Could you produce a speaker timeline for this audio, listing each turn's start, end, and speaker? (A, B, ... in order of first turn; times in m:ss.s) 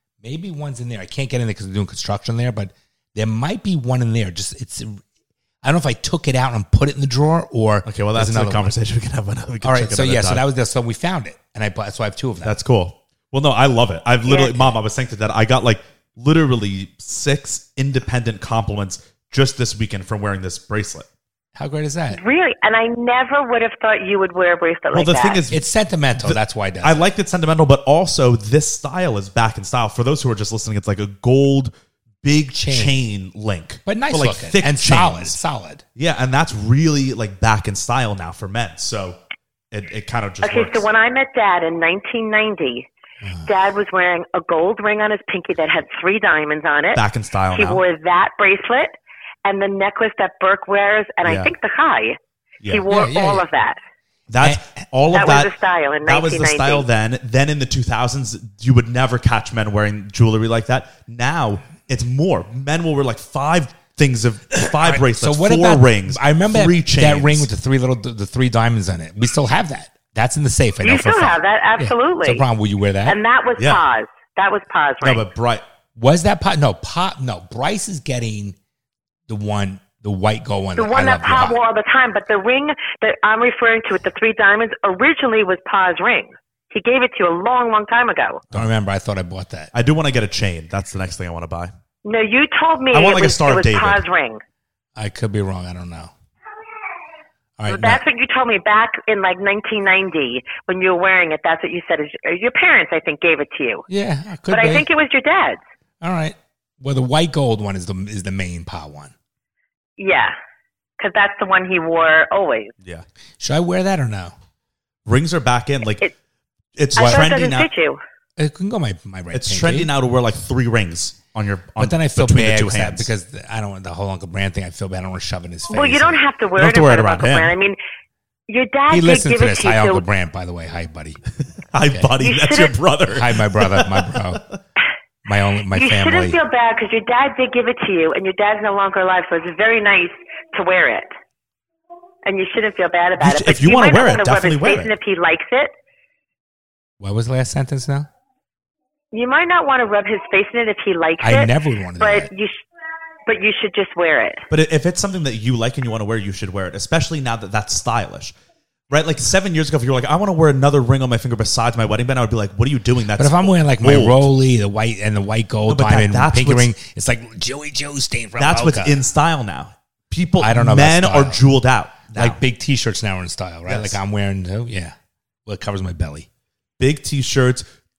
0:00.2-0:05.0 A
0:05.6-0:08.7 A
0:07.9-0:10.4 B
0:09.6-0:12.6 A
0:12.4-0:21.1 B
0:14.3-0:14.6 C
0:21.6-0:22.2 A
0:22.1-0:25.4 C
0:24.9-0:25.6 B
0:25.5-0:27.1 A
0:26.2-0:31.7 B
0:32.2-0:35.4 B
0:32.6-0:33.0 A
0:33.9-0:35.8 A
0:36.0-0:39.2 B
0:39.7-0:40.9 B
0:40.4-0:42.9 C
0:43.5-0:47.0 C
0:47.0-0:47.8 B
0:47.5-0:48.9 C
0:49.4-0:53.8 C
0:51.2-0:51.5 B
0:52.9-0:53.4 A
0:54.3-0:55.5 B
0:55.1-0:56.8 C
0:56.0-1:07.5 B
1:04.6-1:13.2 A
1:10.8-1:12.4 C
1:13.1-1:15.2 C
1:15.0-1:15.6 B
1:16.0-1:18.6 A
1:19.3-1:21.6 A
1:20.8-1:28.4 C
1:28.5-1:29.7 A
1:29.7-1:31.7 B
1:32.0-1:34.4 C
1:32.9-1:34.0 B
1:35.0-1:36.1 A
1:37.6-1:38.0 A
1:37.7-1:43.8 C
1:43.9-1:44.9 A
1:44.5-1:45.6 C
1:46.0-1:49.1 A
1:50.0-1:50.4 C
1:51.0-1:52.7 C
1:53.4-1:54.3 A
1:55.1-1:56.1 B
1:56.8-1:57.7 B
1:57.0-1:58.0 C
1:57.0-1:57.2 A
1:58.4-1:59.9 A
1:59.3-2:03.1 B
2:01.8-2:06.2 A
2:05.7-2:07.8 C
2:06.6-2:07.5 B
2:08.5-2:10.0 C
2:08.9-2:11.2 A
2:11.7-2:14.5 B
2:12.2-2:12.8 C
2:13.1-2:14.4 A
2:15.2-2:16.4 A
2:15.7-2:21.1 C
2:22.2-2:25.7 C
2:23.2-2:25.0 B
2:27.0-2:28.1 A
2:29.1-2:32.6 C
2:31.2-2:32.3 A
2:33.3-2:34.4 C
2:34.5-2:38.3 B
2:38.9-2:44.3 B
2:43.2-2:49.0 A
2:45.7-2:46.7 B
2:48.4-2:52.4 B
2:50.4-2:51.4 A
2:52.2-2:55.0 A
2:53.7-2:54.0 B
2:55.5-2:56.3 A
2:56.8-2:57.6 B